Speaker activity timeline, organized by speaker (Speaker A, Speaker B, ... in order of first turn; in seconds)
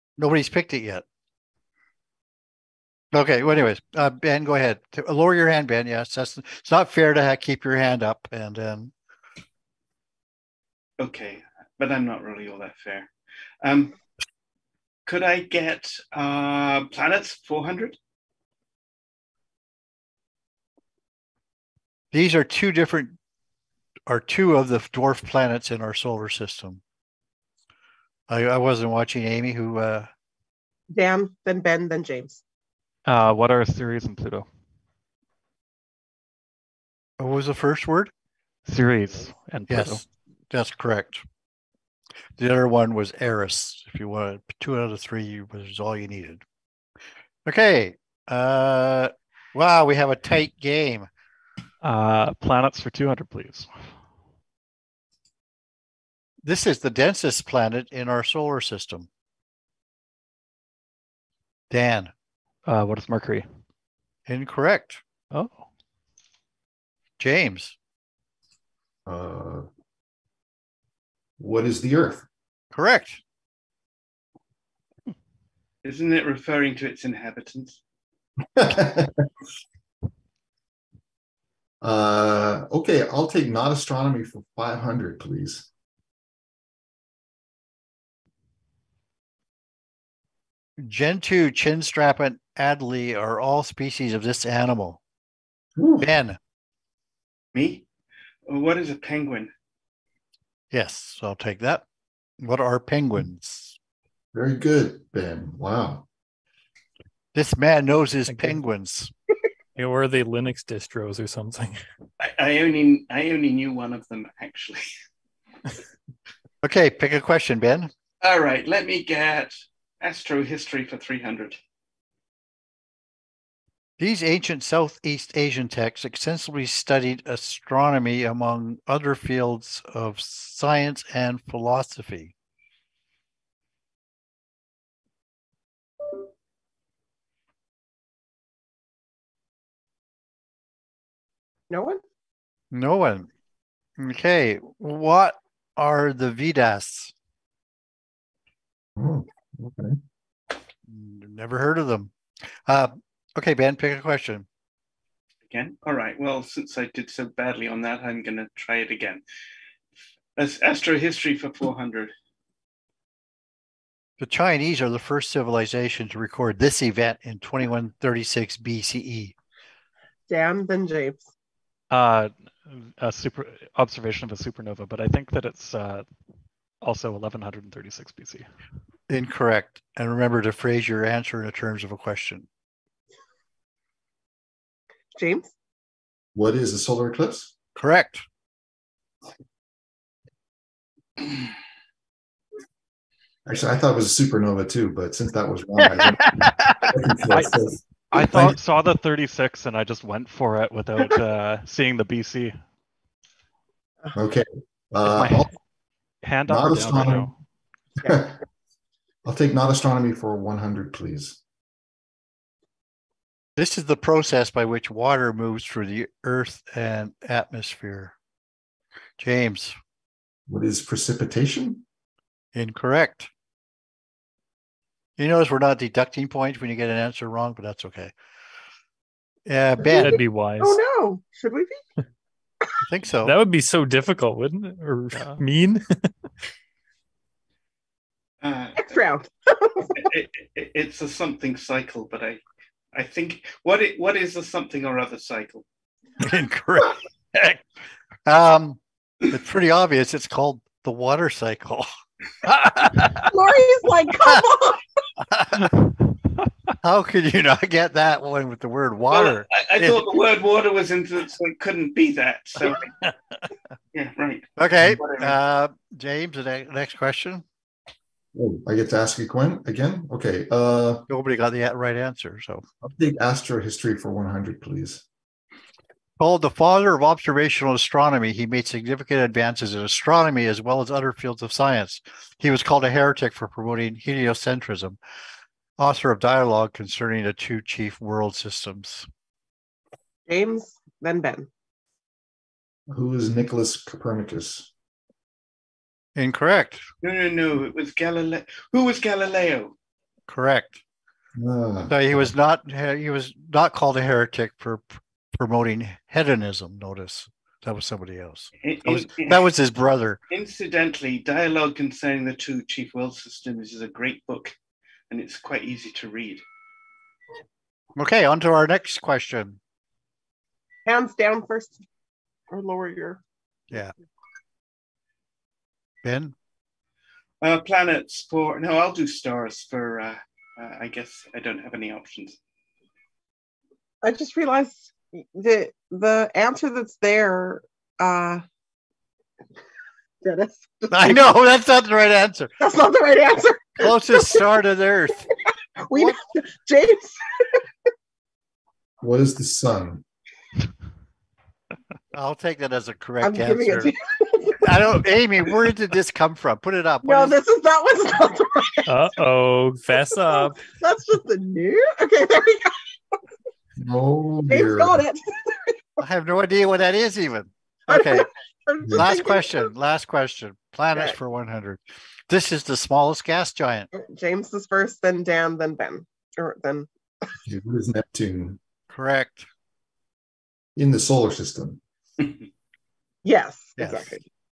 Speaker A: 0.2-1.0, 3.1-8.9, 22.1-23.1, 24.1-26.8, 28.3-30.1, 37.2-38.1, 39.7-41.2, 42.4-46.4, 47.5-51.1, 56.4-59.1, 61.7-62.1, 64.3-65.0, 67.2-67.7, 72.7-73.2, 90.8-95.0, 96.0-96.4, 100.7-101.8, 102.4-103.8, 107.3-109.1, 116.6-117.9, 124.0-132.3, 142.7-143.3, 144.0-147.1, 150.8-152.1, 152.7-154.4, 164.2-169.3, 179.1-182.5, 187.8-188.2, 195.9-196.9, 198.1-198.4, 213.6-218.1, 219.2-219.7, 222.5-223.3, 225.2-228.1, 229.5-230.2, 232.8-233.3, 246.2-247.6, 248.2-251.9, 252.4-253.3, 255.2-255.8, 256.8-260.0, 264.6-267.4, 271.1-272.6, 276.2-285.0, 285.8-289.1, 296.1-296.8, 300.3-300.8, 301.9-310.2, 317.9-319.6, 326.0-326.3, 340.9-342.5, 343.8-345.3, 352.1-353.9, 354.6-357.4, 366.0-368.3, 368.9-373.9, 378.9-379.5, 383.8-384.2
Speaker B: 11.0-13.1, 13.6-13.9, 15.1-18.0, 75.8-77.8, 97.5-97.8, 98.5-99.5, 112.2-114.8, 118.2-121.6, 155.5-159.2, 160.3-162.1, 238.4-239.0, 239.9-242.4, 242.9-245.6, 259.1-262.9, 263.9-265.4, 297.0-299.7, 308.6-309.4, 310.3-314.5, 315.1-316.4, 327.4-332.4, 382.2-382.4
Speaker C: 30.9-32.4, 141.7-142.0, 170.3-171.2, 185.2-185.5, 229.9-231.8, 238.8-240.1, 253.3-254.8, 290.3-291.5, 320.9-321.8, 322.5-323.2, 334.0-338.4, 340.2-341.3, 342.6-344.4, 345.8-347.6, 353.2-354.9, 357.0-359.0, 360.3-362.8, 364.5-365.9, 367.9-369.7, 373.9-376.9, 383.2-384.2
Speaker D: 33.0-34.5, 38.7-40.0, 51.8-54.0, 62.6-63.5, 65.3-65.7, 171.9-176.1, 176.8-178.5, 197.3-202.6, 205.0-205.5, 206.2-207.3
Speaker E: 69.0-69.7, 71.4-72.2, 78.5-79.2, 81.8-85.7, 95.8-96.1, 104.3-106.1, 149.0-150.0, 186.3-187.5, 193.4-197.8, 204.1-205.5, 206.5-207.3, 208.0-208.4, 209.2-211.4, 220.5-221.8, 268.3-271.1, 272.8-275.0, 292.9-294.7, 301.3-302.0, 349.0-350.0, 363.8-365.0, 368.8-369.1, 377.4-378.6, 380.8-381.8
Speaker F: 108.3-108.6, 109.8-111.8, 229.9-230.8, 233.2-235.8, 358.9-360.6